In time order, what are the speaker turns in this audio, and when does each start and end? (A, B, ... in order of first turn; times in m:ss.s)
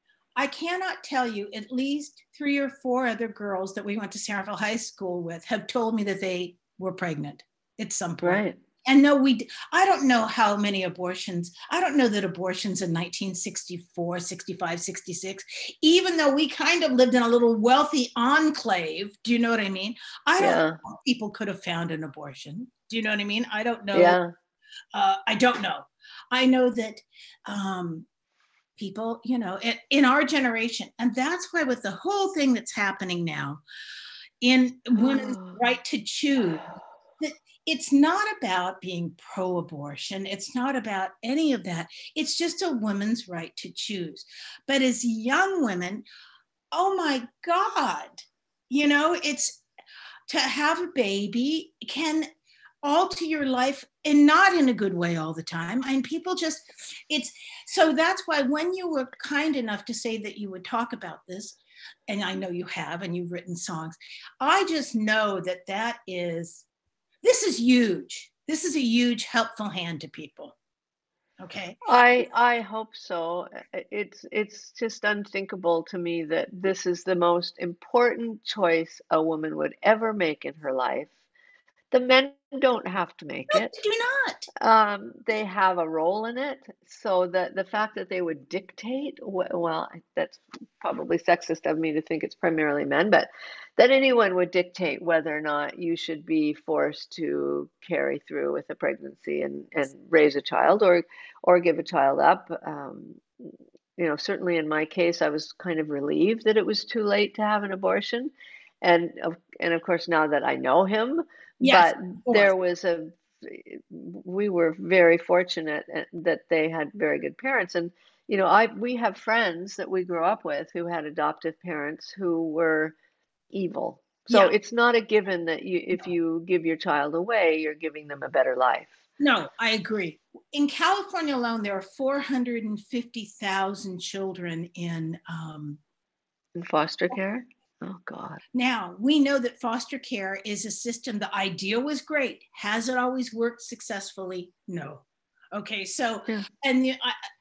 0:00.4-0:24.2 A
0:08.2-0:08.6 B
0:20.4-0:20.8 B
0:23.9-0:24.3 B
0:24.9-0:28.1 A
0:28.8-0:33.6 A
0:34.4-0:36.6 A
0:35.0-0:35.7 B
0:37.2-0:46.1 A
0:46.7-0:49.6 A
0:50.3-0:52.3 A
0:52.8-1:06.6 A
1:07.2-1:10.6 A
1:11.4-1:11.8 A
1:11.9-1:21.2 B
1:21.9-1:23.7 B
1:23.5-1:24.5 A
1:24.6-2:03.0 B
1:51.6-1:52.5 A
2:03.5-2:09.0 B
2:09.2-2:15.8 A
2:16.6-2:18.4 B
2:18.5-2:27.2 A